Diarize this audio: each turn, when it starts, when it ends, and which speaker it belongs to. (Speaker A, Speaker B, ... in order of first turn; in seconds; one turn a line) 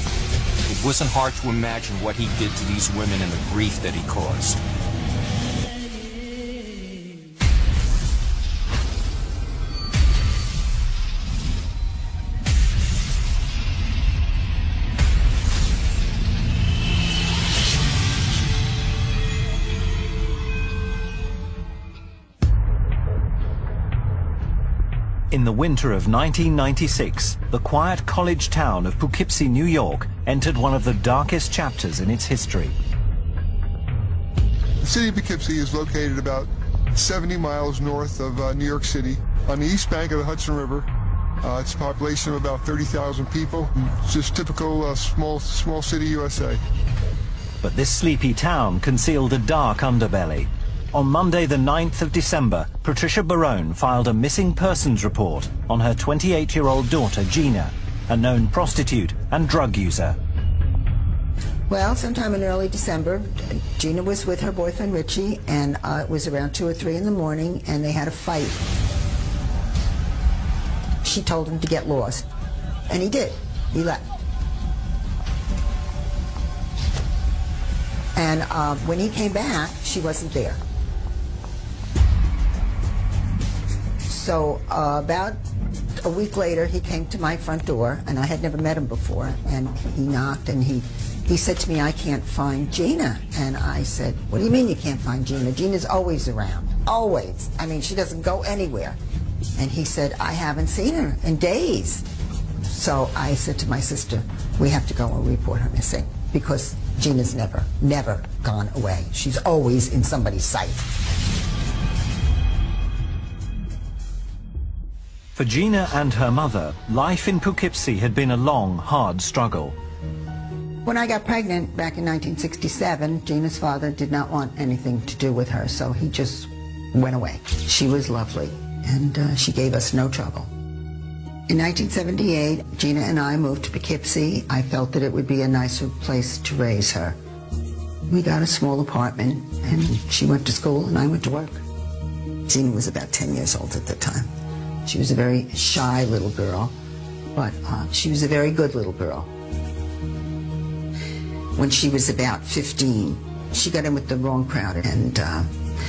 Speaker A: 0.7-4.6
Speaker B: 25.3-32.8
Speaker C: 34.8-40.9
Speaker C: 41.4-46.6
Speaker B: 47.6-60.2
Speaker D: 61.7-68.7
Speaker D: 71.0-72.3
Speaker D: 72.9-74.1
Speaker D: 78.2-80.6
Speaker D: 84.1-85.4
Speaker D: 86.0-99.0
Speaker D: 99.6-102.1
Speaker D: 102.7-110.9
Speaker B: 115.4-119.8
Speaker D: 120.8-130.5
Speaker D: 131.5-137.2
Speaker D: 138.1-141.6
Speaker D: 142.5-144.3
Speaker D: 144.8-146.8
Speaker D: 147.3-149.3
Speaker D: 151.6-155.5